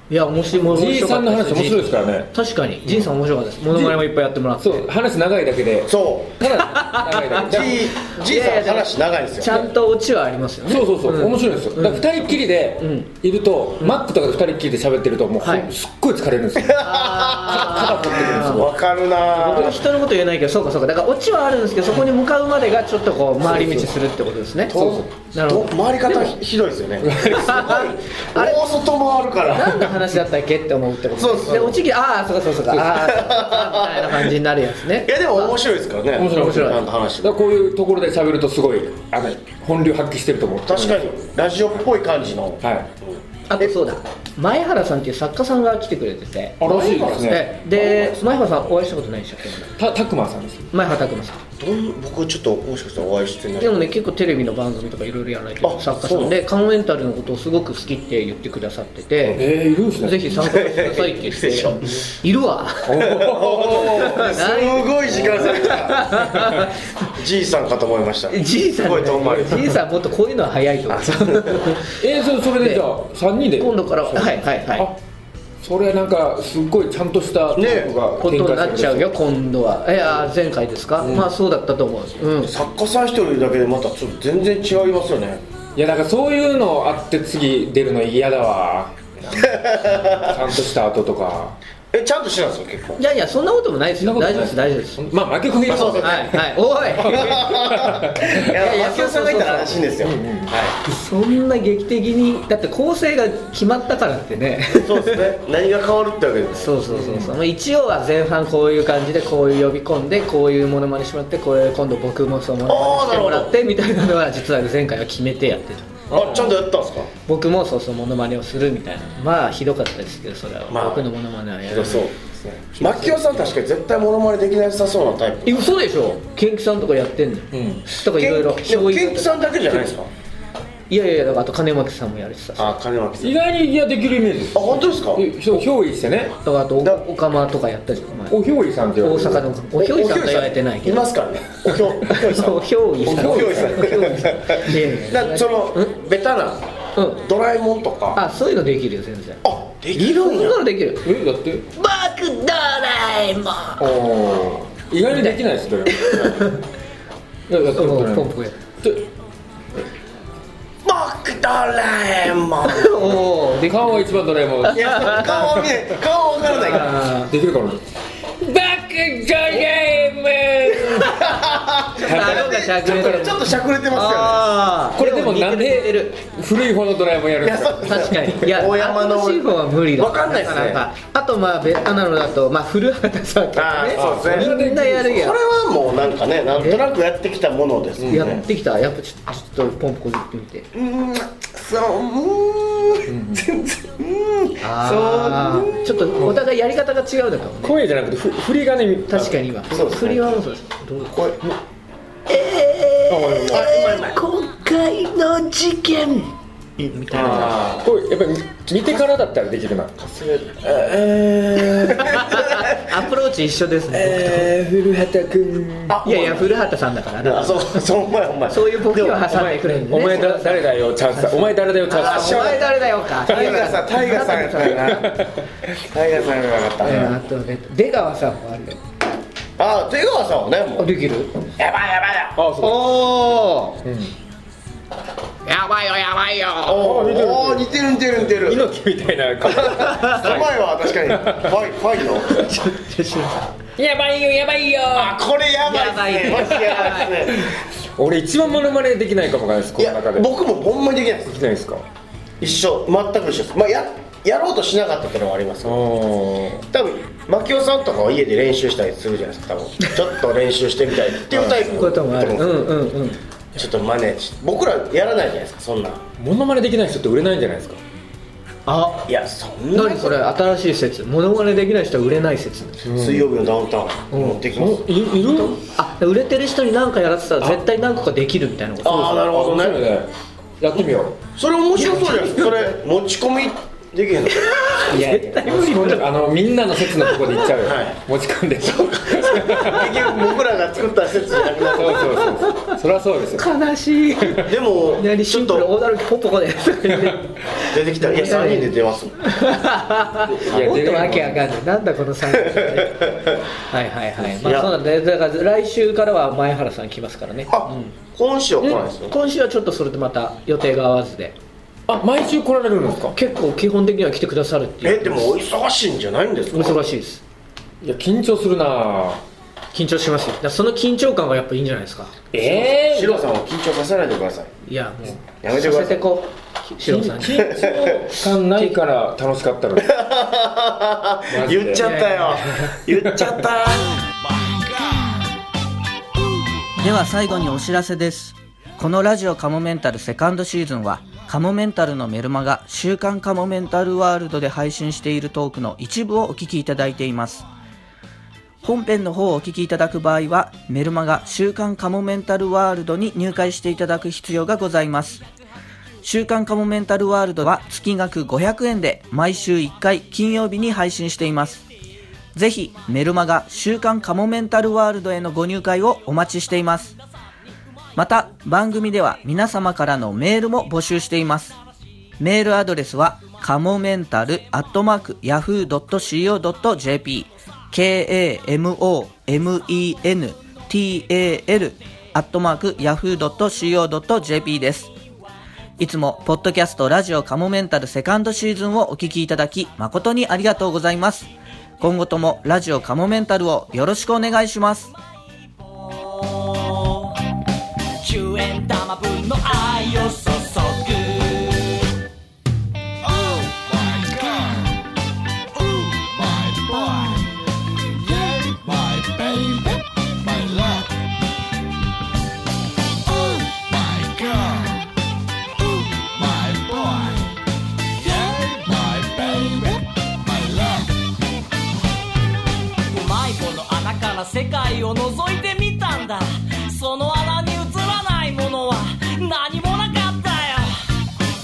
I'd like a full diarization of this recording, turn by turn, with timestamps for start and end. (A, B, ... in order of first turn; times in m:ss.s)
0:00.1-0:04.9 A
0:00.6-0:02.3 B
0:03.7-0:04.0 B
0:04.6-0:07.8 B
0:05.9-0:06.4 C
0:06.6-0:07.5 A
0:07.4-0:09.6 C
0:08.0-0:13.1 A
0:10.7-0:16.8 B
0:15.4-0:15.7 A
0:16.6-0:19.8 C
0:16.8-0:18.7 A
0:17.5-0:18.8 B
0:19.3-0:24.8 A
0:23.4-0:23.9 C
0:24.7-0:29.8 C
0:24.7-0:25.3 B
0:25.3-0:26.4 A
0:27.0-0:27.7 B
0:27.2-0:28.7 A
0:29.5-0:35.6 A
0:29.6-0:29.9 B
0:31.2-0:31.8 C
0:32.9-0:34.3 C
0:35.0-0:37.4 C
0:36.2-0:41.1 B
0:36.3-0:36.8 A
0:40.7-0:43.7 C
0:42.6-0:42.9 B
0:43.5-0:49.8 A
0:46.6-0:47.6 B
0:46.6-0:48.3 C
0:49.8-0:50.7 B
0:50.7-0:51.4 A
0:51.6-0:53.9 C
0:53.6-0:59.4 A
0:55.6-0:56.4 C
0:59.4-1:00.4 B
1:00.0-1:03.2 A
1:00.3-1:02.0 C
1:02.9-1:04.4 B
1:03.0-1:06.1 C
1:03.8-1:06.9 A
1:06.2-1:06.7 B
1:07.1-1:09.8 C
1:08.3-1:12.0 A
1:10.9-1:11.8 C
1:12.0-1:15.0 B
1:12.6-1:12.9 A
1:13.6-1:14.9 A
1:15.6-1:19.1 B
1:17.6-1:17.9 C
1:18.2-1:22.5 A
1:21.0-1:21.3 B
1:22.4-1:25.4 C
1:25.8-1:31.6 B
1:29.3-1:30.4 C
1:31.9-1:33.0 C
1:33.0-1:35.0 A
1:34.0-1:38.4 B
1:35.6-1:36.3 C
1:35.8-1:37.6 A
1:37.0-1:40.7 C
1:38.5-1:39.9 A
1:40.0-1:40.6 B
1:40.8-1:45.2 A
1:44.8-1:46.7 C
1:46.6-1:55.9 A
1:46.9-1:47.4 B
1:52.7-1:53.5 C
1:56.1-1:56.5 B
1:56.1-1:57.1 C
1:57.3-2:02.1 A
2:00.7-2:01.1 C
2:01.6-2:05.7 C
2:02.8-2:03.2 A
2:05.5-2:09.4 A
2:07.5-2:07.9 B
2:08.0-2:10.1 C
2:10.9-2:12.8 A
2:12.6-2:13.4 C
2:13.2-2:16.3 B
2:14.5-2:15.2 C
2:16.4-2:18.4 A
2:18.3-2:19.4 B
2:19.0-2:21.1 A
2:19.8-2:26.6 C
2:22.1-2:25.9 A
2:23.2-2:23.9 B
2:27.0-2:27.2 A
2:27.2-2:28.2 C
2:28.1-2:29.4 A
2:29.4-2:30.6 C
2:29.9-2:31.1 A
2:31.0-2:31.6 B
2:31.7-2:33.9 A
2:33.8-2:36.4 B
2:35.1-2:36.6 A
2:37.5-2:38.3 B
2:37.7-2:38.6 A
2:38.8-2:39.1 B
2:40.8-2:43.2 C
2:42.6-2:44.2 A
2:43.7-2:45.7 B
2:44.7-2:47.0 C
2:46.5-2:47.3 A
2:47.2-2:47.8 B
2:48.4-2:51.2 B
2:50.9-2:54.4 C
2:51.2-2:56.2 A
2:52.1-2:53.4 B
2:55.0-2:58.1 B
2:57.4-3:00.8 C
2:57.8-3:05.4 A
3:03.6-3:08.4 C
3:03.9-3:05.2 B
3:06.5-3:06.8 A
3:08.0-3:08.4 B
3:08.1-3:10.7 A
3:10.7-3:15.8 C
3:13.1-3:13.5 B
3:14.6-3:17.8 A
3:17.6-3:19.4 B
3:19.1-3:21.3 A
3:19.7-3:20.4 C
3:21.1-3:21.4 C
3:22.3-3:27.6 A
3:23.1-3:23.7 B
3:23.5-3:24.2 C
3:27.1-3:27.6 C
3:27.1-3:30.0 B
3:30.0-3:31.0 C
3:30.6-3:32.7 B
3:31.7-3:34.5 A
3:32.0-3:32.4 C
3:33.9-3:36.0 B
3:35.9-3:36.6 C
3:36.0-3:37.8 A
3:37.2-3:39.2 C
3:38.5-3:45.0 A
3:39.3-3:42.6 B
3:41.9-3:45.1 C
3:43.3-3:43.6 B
3:44.8-3:45.5 B
3:45.8-3:47.2 C
3:46.8-3:48.8 A
3:49.6-3:50.9 C
3:50.8-3:51.3 A
3:51.6-3:52.4 C
3:52.4-3:52.8 B
3:52.6-3:53.8 A
3:53.8-3:54.1 B
3:55.4-3:56.9 A
3:56.6-3:58.7 C
3:56.8-4:01.6 B
3:59.4-4:02.4 C
4:02.2-4:03.5 A
4:03.8-4:05.2 B
4:04.9-4:07.5 C
4:05.6-4:07.1 A
4:06.4-4:10.3 B
4:09.8-4:11.4 C
4:11.3-4:11.8 B
4:12.4-4:15.8 C
4:15.6-4:16.7 B
4:16.7-4:22.7 C
4:21.3-4:23.2 A
4:23.6-4:26.0 C
4:26.2-4:27.8 B
4:28.7-4:29.1 A
4:29.1-4:30.2 C
4:29.7-4:32.8 A
4:32.8-4:33.3 B
4:32.9-4:34.8 C
4:34.1-4:34.4 A
4:34.5-4:35.6 B
4:35.8-4:39.2 A
4:38.8-4:39.9 C
4:39.2-4:40.1 B
4:40.6-4:41.2 B
4:40.7-4:44.4 C
4:41.8-4:42.7 A
4:44.3-4:46.1 A
4:44.9-4:50.0 B
4:46.9-4:47.5 A
4:47.6-4:48.0 C
4:49.2-4:50.1 A
4:49.6-4:52.2 C
4:51.6-4:52.8 A
4:51.8-4:53.5 B
4:53.4-5:08.0 A
4:54.4-4:55.7 C
4:56.9-4:57.2 B
4:57.7-4:59.2 C
5:00.3-5:01.5 B
5:00.5-5:00.8 C
5:02.5-5:03.4 C
5:04.2-5:04.7 C
5:07.5-5:09.1 C
5:08.6-5:11.4 A
5:11.9-5:13.2 B
5:13.2-5:15.4 A
5:14.8-5:16.8 C
5:16.5-5:17.2 A
5:17.8-5:19.2 B
5:19.7-5:22.1 A
5:22.3-5:23.3 B
5:22.4-5:24.5 C
5:24.6-5:27.5 A
5:25.4-5:26.1 C
5:26.8-5:29.9 B
5:27.4-5:28.1 C
5:29.8-5:34.1 C
5:31.3-5:31.9 B
5:31.8-5:32.6 A
5:32.7-5:33.4 B
5:36.8-5:47.4 D
5:48.6-5:55.2 D
5:56.0-6:01.7 D
6:02.3-6:07.0 D
6:08.0-6:11.6 D
6:12.2-6:24.9 D
6:25.8-6:34.9 D
6:35.7-6:37.2 E
6:38.0-6:41.9 E
6:46.6-6:47.2 E
6:48.4-6:49.5 E
6:54.3-6:54.6 E
6:56.2-6:57.2 E
6:58.1-6:59.8 E
7:02.9-7:10.9 E